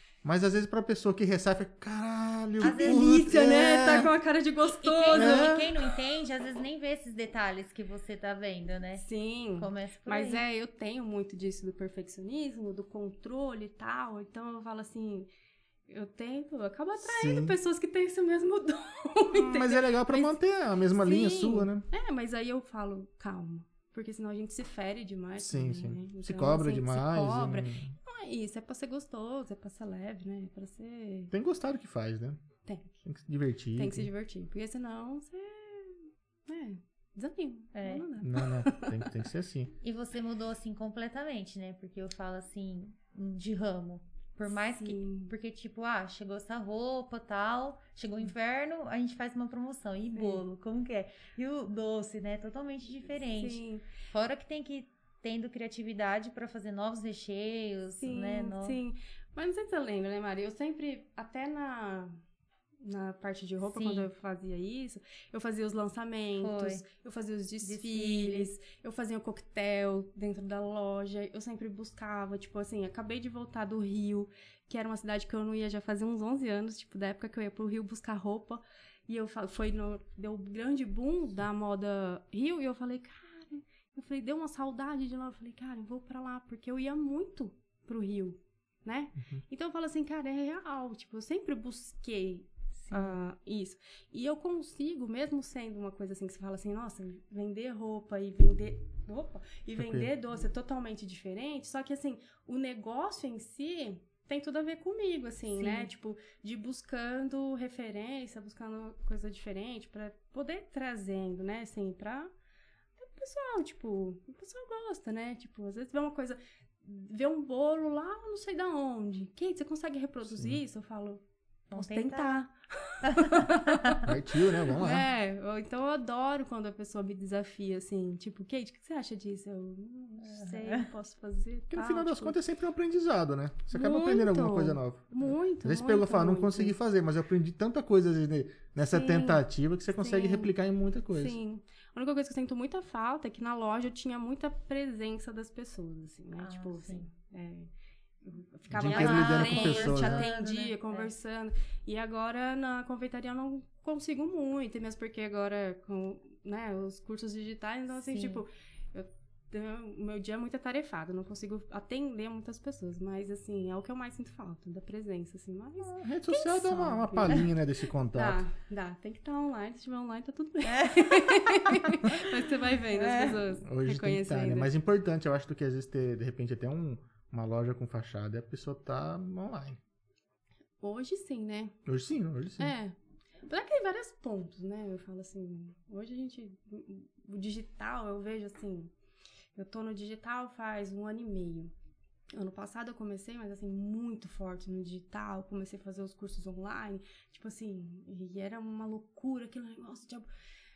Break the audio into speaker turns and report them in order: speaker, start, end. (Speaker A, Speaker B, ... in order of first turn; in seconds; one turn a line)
Speaker A: 0.2-4.1
Speaker B: 2.6-5.7
Speaker C: 2.6-4.0
Speaker C: 4.7-10.4
Speaker A: 5.1-5.7
Speaker B: 9.0-15.3
Speaker B: 15.9-20.4
Speaker A: 17.0-17.6
Speaker A: 19.3-21.9
Speaker B: 20.9-31.3
Speaker A: 25.4-27.9
Speaker A: 31.3-32.4
Speaker B: 32.6-33.0
Speaker A: 33.0-34.1
Speaker B: 33.8-39.0
Speaker C: 37.7-38.0
Speaker A: 38.2-39.7
Speaker C: 39.8-58.8
Speaker B: 44.7-45.3
Speaker B: 50.1-50.4
Speaker B: 53.2-53.9
Speaker B: 58.0-62.2
Speaker B: 62.8-112.3
Speaker C: 63.6-64.1
Speaker C: 66.4-66.8
Speaker C: 67.6-68.5
Speaker C: 92.9-93.1
Speaker A: 99.8-100.1
Speaker C: 105.5-105.9
Speaker B: 113.0-121.2
Speaker A: 120.2-120.6
Speaker C: 121.7-122.4
Speaker B: 121.7-124.1
Speaker C: 123.0-124.0
Speaker A: 124.0-125.1
Speaker B: 124.7-132.3
Speaker C: 130.2-130.9
Speaker A: 131.7-141.4
Speaker B: 133.7-136.8
Speaker B: 138.9-139.4
Speaker B: 140.0-140.5
Speaker B: 141.1-147.7
Speaker C: 146.4-147.1
Speaker B: 148.2-167.5
Speaker A: 148.7-150.3
Speaker C: 148.7-151.1
Speaker C: 158.1-158.4
Speaker A: 165.8-168.4
Speaker B: 168.1-174.7
Speaker C: 170.6-172.2
Speaker C: 172.9-173.4
Speaker A: 173.6-179.8
Speaker B: 180.8-181.8
Speaker A: 181.8-182.7
Speaker B: 182.6-182.9
Speaker B: 183.5-188.9
Speaker B: 189.5-191.7
Speaker B: 192.3-200.3